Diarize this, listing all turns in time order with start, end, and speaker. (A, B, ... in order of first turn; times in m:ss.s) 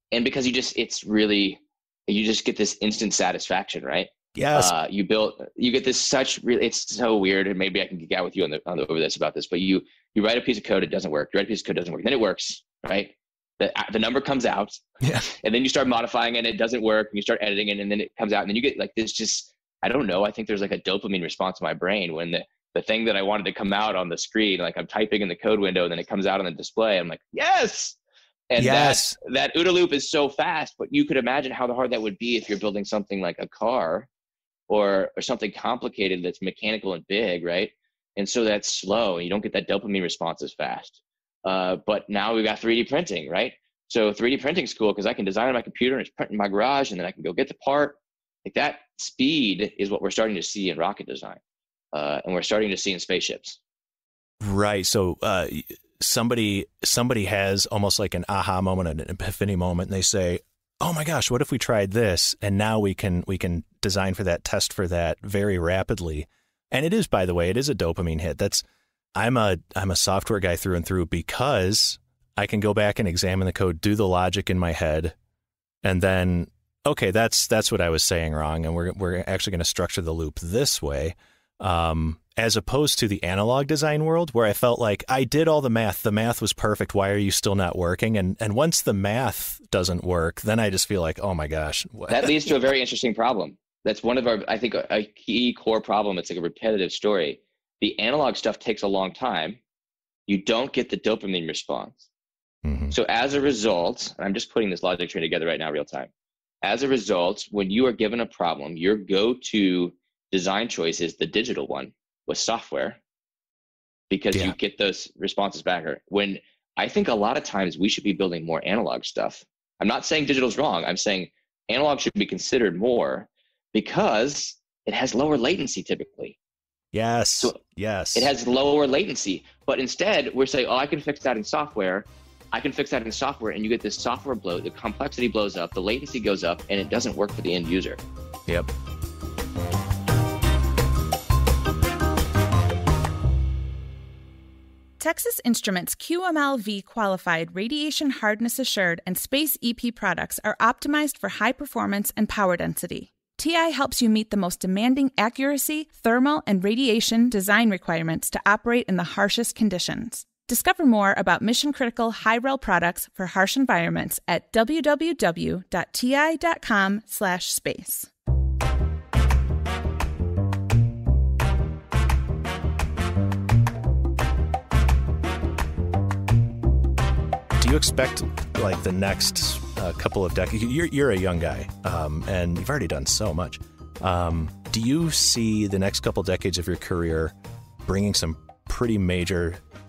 0:00.1-0:28.0 A
0:04.4-0:04.7 B
0:28.5-0:34.1 A
0:28.6-0:29.2 B
0:34.7-0:51.4 A
0:51.9-0:53.6 A
0:54.4-1:08.6 B
1:09.2-1:15.2 B
1:15.8-1:32.5 B
1:32.1-1:39.6 A
1:40.3-1:42.1 A
1:42.6-1:43.0 B
1:42.9-1:46.1 A
1:46.6-1:53.0 A
1:54.1-2:06.4 A
2:06.9-2:08.3 B
2:08.1-2:18.0 A
2:25.0-2:48.1 C
2:57.6-3:09.6 B